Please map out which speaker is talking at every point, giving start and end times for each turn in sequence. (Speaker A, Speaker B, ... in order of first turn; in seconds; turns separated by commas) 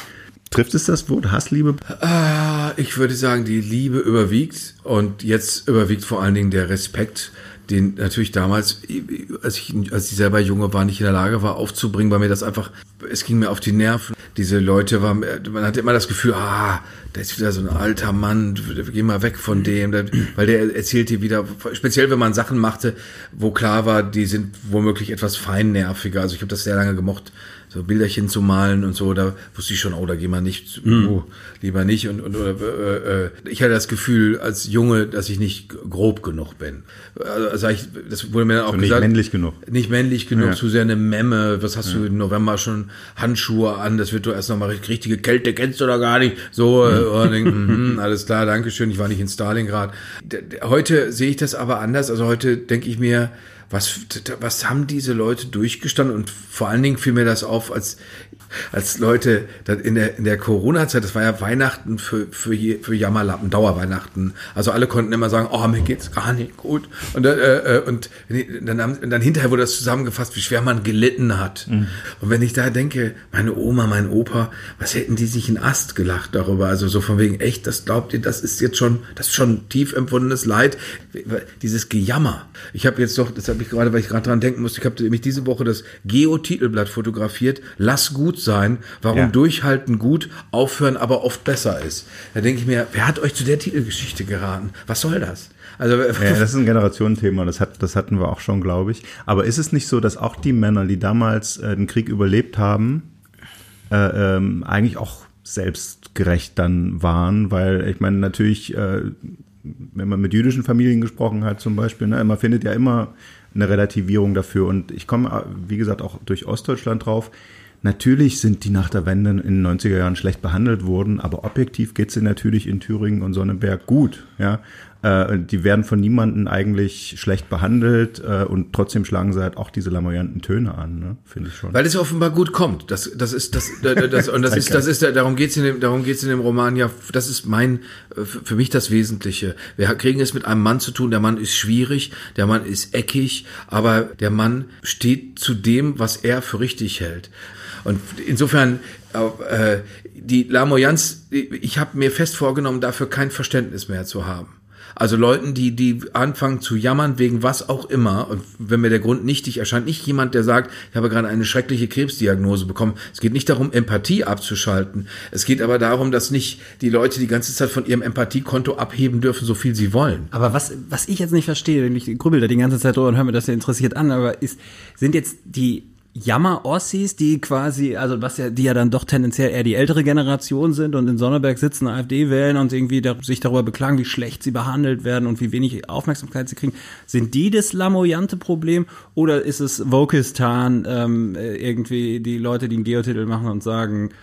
Speaker A: 0.5-1.8, Speaker B: 1.9-39.1, Speaker C: 30.9-31.1, Speaker A: 38.7-39.6, Speaker B: 39.6-58.0, Speaker B: 58.5-96.5, Speaker A: 71.7-71.9, Speaker A: 96.2-103.1, Speaker A: 103.9-131.8, Speaker B: 131.7-147.3, Speaker A: 134.5-134.8, Speaker B: 147.8-170.3, Speaker C: 170.3-194.1